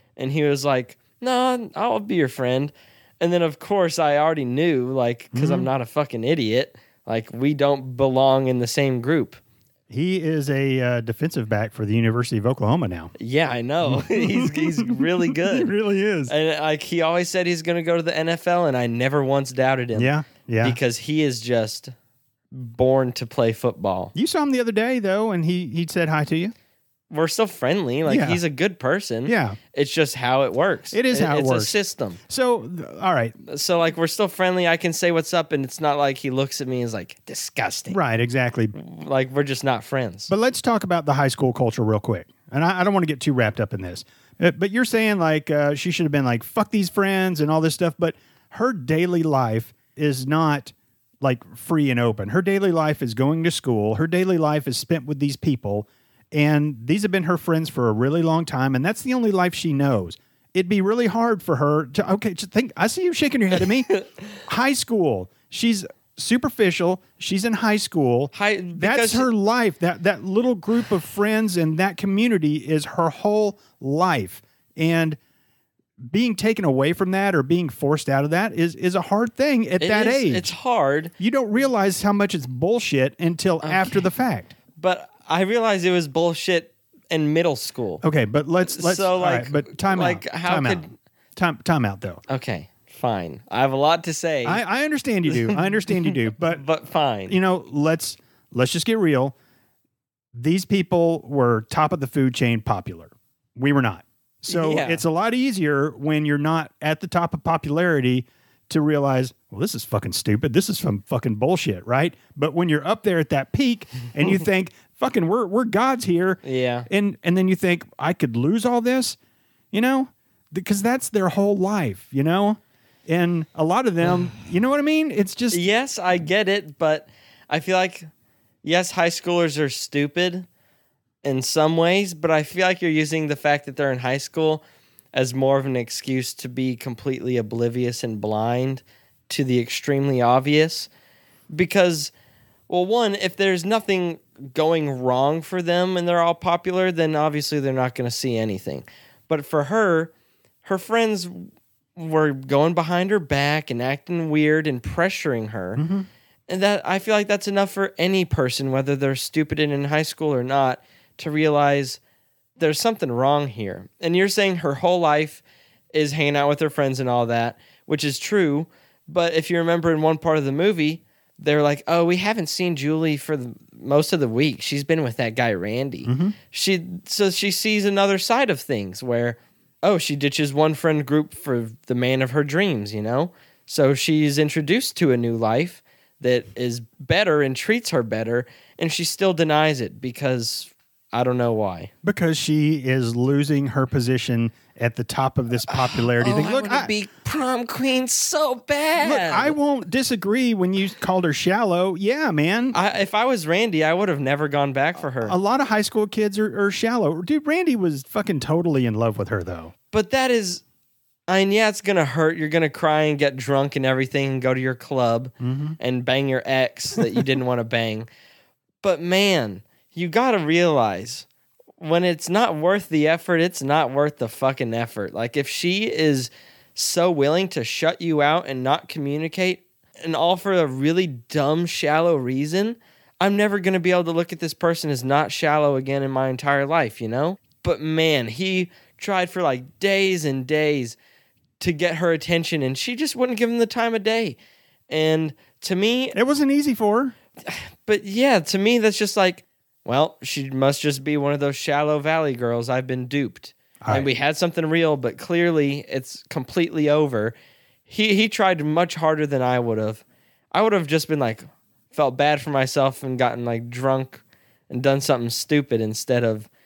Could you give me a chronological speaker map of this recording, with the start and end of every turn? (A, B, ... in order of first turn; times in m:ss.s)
0:00.2-0:09.4 A
0:05.3-0:05.7 B
0:09.9-0:13.1 B
0:13.2-0:15.7 A
0:13.8-0:16.3 B
0:16.3-0:21.9 A
0:19.9-0:20.8 B
0:22.5-0:24.1 A
0:24.1-0:26.5 B
0:27.1-0:32.2 A
0:28.0-0:28.4 B
0:29.2-0:29.6 B
0:30.9-0:31.7 B
0:32.3-0:33.3 B
0:33.5-0:38.0 A
0:37.9-0:38.7 B
0:38.7-0:40.3 A
0:40.3-1:03.9 B
1:04.4-1:15.2 B
1:08.3-1:09.3 A
1:16.0-1:20.5 B
1:19.8-1:21.1 A
1:21.2-1:24.5 B
1:23.6-1:24.0 A
1:24.8-1:28.0 A
1:28.0-1:32.2 B
1:28.6-1:30.9 A
1:32.3-1:34.6 A
1:34.4-1:36.6 B
1:35.3-1:37.4 A
1:37.3-1:39.3 B
1:40.3-1:59.2 B
1:44.5-1:45.0 A
1:56.4-1:56.9 A
1:59.7-2:05.6 B
2:05.5-2:08.1 A
2:08.6-2:10.5 A
2:11.2-2:20.9 A
2:21.5-2:22.1 A
2:22.7-2:30.1 A
2:30.6-2:35.8 A
2:35.8-2:36.1 B
2:36.5-2:42.0 A
2:42.6-3:11.9 A
2:56.0-2:56.4 B
3:12.0-3:16.9 B
3:15.7-3:19.6 A
3:19.0-3:22.8 B
3:22.7-3:25.4 A
3:25.2-3:29.7 B
3:29.9-3:30.6 A
3:31.3-3:38.1 A
3:35.4-3:35.8 B
3:38.8-3:41.3 A
3:41.8-4:01.0 A
4:01.6-4:04.4 A
4:04.9-4:06.2 A
4:06.1-4:07.1 B
4:07.4-4:17.3 A
4:13.8-4:14.1 B
4:17.9-4:26.5 A